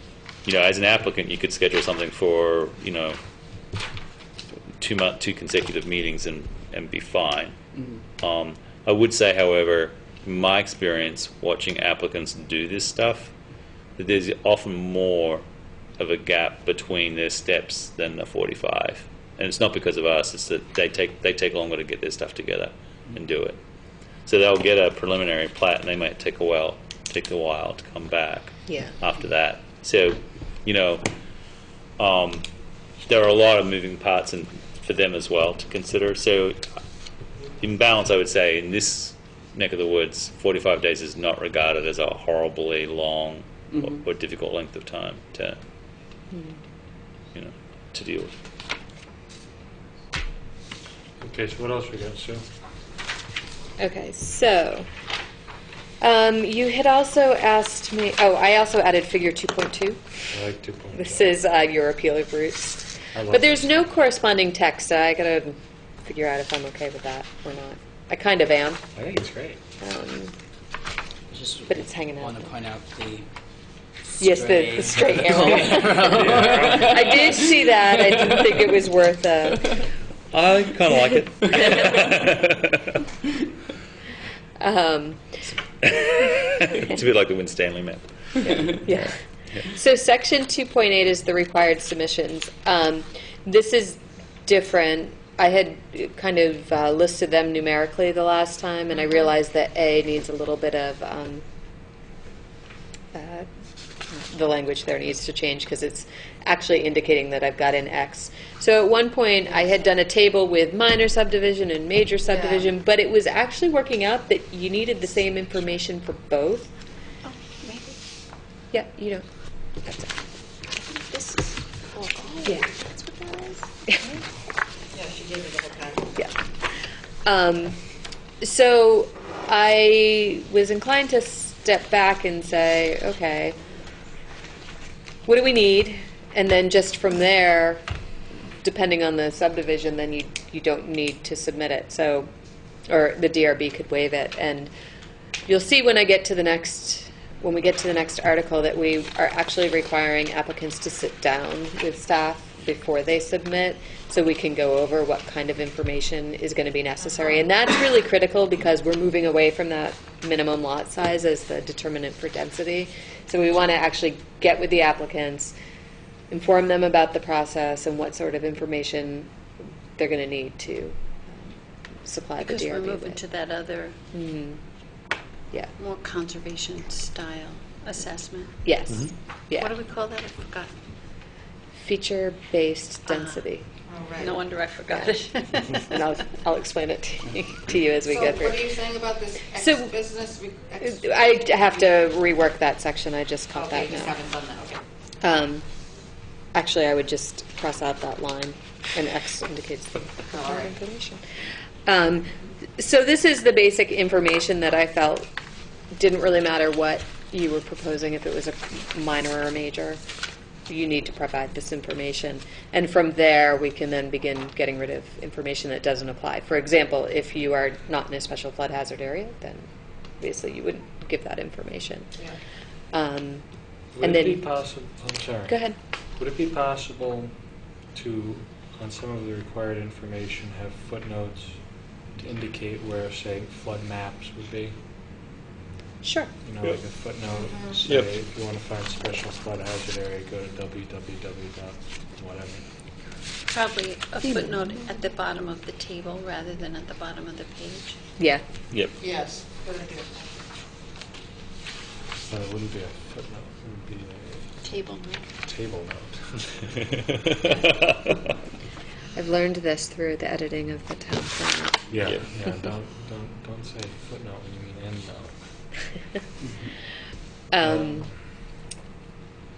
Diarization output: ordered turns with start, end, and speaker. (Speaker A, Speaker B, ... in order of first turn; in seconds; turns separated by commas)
Speaker A: 0.4-3.2, Speaker A: 4.8-7.5, Speaker B: 7.7-8.0, Speaker A: 8.2-13.3, Speaker A: 14.0-15.4, Speaker A: 16.0-23.6, Speaker A: 24.2-31.1, Speaker C: 28.7-28.9, Speaker A: 32.0-32.5, Speaker A: 33.0-36.7, Speaker A: 37.6-45.6, Speaker B: 43.7-44.0, Speaker C: 46.3-46.6, Speaker A: 47.3-48.3, Speaker D: 51.2-52.4, Speaker C: 53.8-54.9, Speaker C: 56.0-60.0, Speaker D: 60.3-61.3, Speaker C: 61.0-68.8, Speaker D: 63.1-63.8, Speaker D: 68.9-69.6, Speaker C: 69.8-70.3, Speaker B: 71.3-73.3, Speaker C: 71.7-72.5, Speaker B: 74.1-78.7, Speaker C: 74.2-79.9, Speaker A: 76.1-76.9, Speaker A: 80.3-83.0, Speaker C: 84.6-85.2, Speaker A: 86.0-89.0, Speaker C: 88.4-101.4, Speaker C: 103.1-103.5, Speaker C: 104.1-116.7, Speaker E: 117.2-118.0, Speaker C: 118.7-119.2, Speaker C: 119.8-120.2, Speaker E: 120.7-123.6, Speaker F: 125.0-126.0, Speaker C: 127.2-127.8, Speaker C: 128.4-133.6, Speaker C: 135.2-137.8, Speaker C: 138.6-142.3, Speaker C: 142.9-144.7, Speaker C: 145.5-165.5, Speaker C: 166.3-169.3, Speaker C: 170.0-173.2, Speaker E: 172.4-173.9, Speaker C: 174.1-174.6, Speaker E: 175.8-178.6, Speaker C: 178.6-179.7, Speaker E: 179.5-180.7, Speaker C: 181.8-183.7, Speaker E: 183.1-183.4, Speaker E: 184.2-186.0, Speaker C: 184.9-188.8, Speaker F: 188.6-190.7, Speaker C: 189.5-190.1, Speaker C: 190.8-194.2, Speaker F: 194.1-194.8, Speaker C: 195.2-195.7, Speaker C: 196.5-201.2, Speaker C: 201.8-205.3, Speaker C: 205.9-210.0, Speaker C: 210.7-219.7, Speaker C: 220.2-222.1, Speaker C: 222.9-223.4, Speaker D: 223.9-225.6, Speaker C: 224.0-224.4, Speaker C: 225.5-225.8, Speaker D: 226.2-227.3, Speaker D: 227.9-234.8, Speaker C: 236.0-236.3, Speaker D: 236.4-242.6, Speaker E: 243.5-248.0, Speaker C: 244.2-244.8, Speaker C: 248.2-248.4, Speaker A: 248.7-248.9, Speaker F: 249.1-250.1, Speaker D: 252.3-254.5, Speaker E: 254.6-255.2, Speaker D: 255.4-256.9, Speaker C: 259.1-261.9, Speaker D: 261.9-265.3, Speaker C: 267.5-268.1, Speaker D: 267.6-267.9